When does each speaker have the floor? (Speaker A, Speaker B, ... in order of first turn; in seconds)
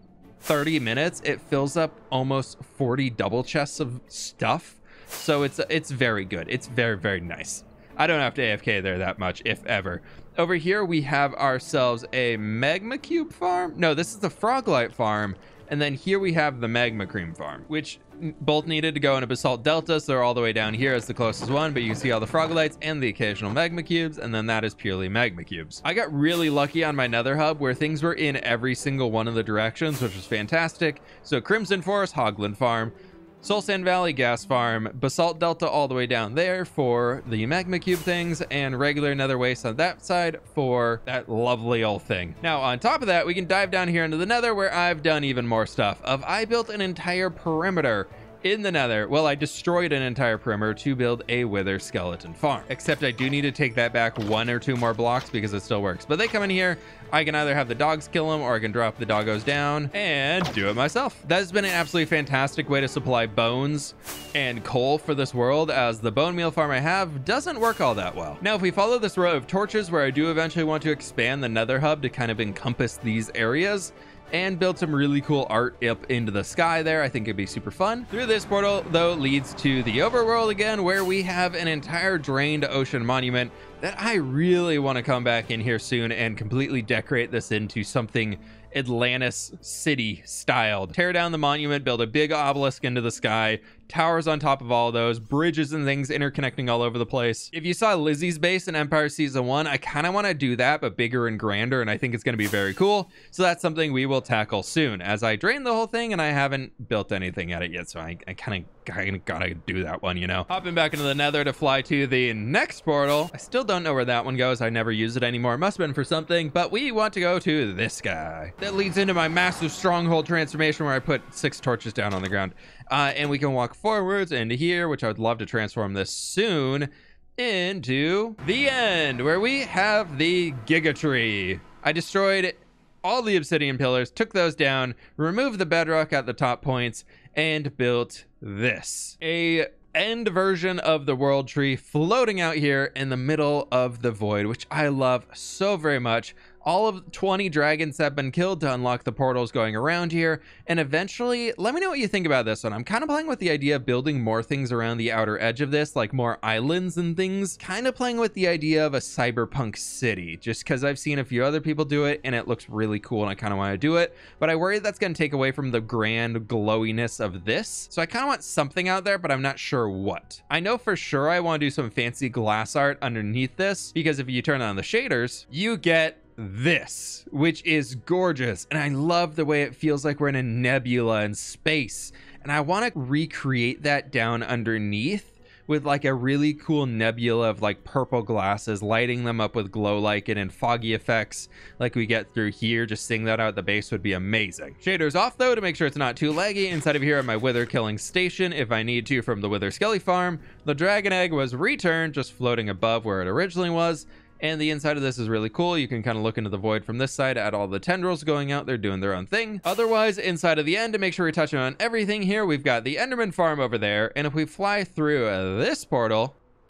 Speaker A: 0.4-216.4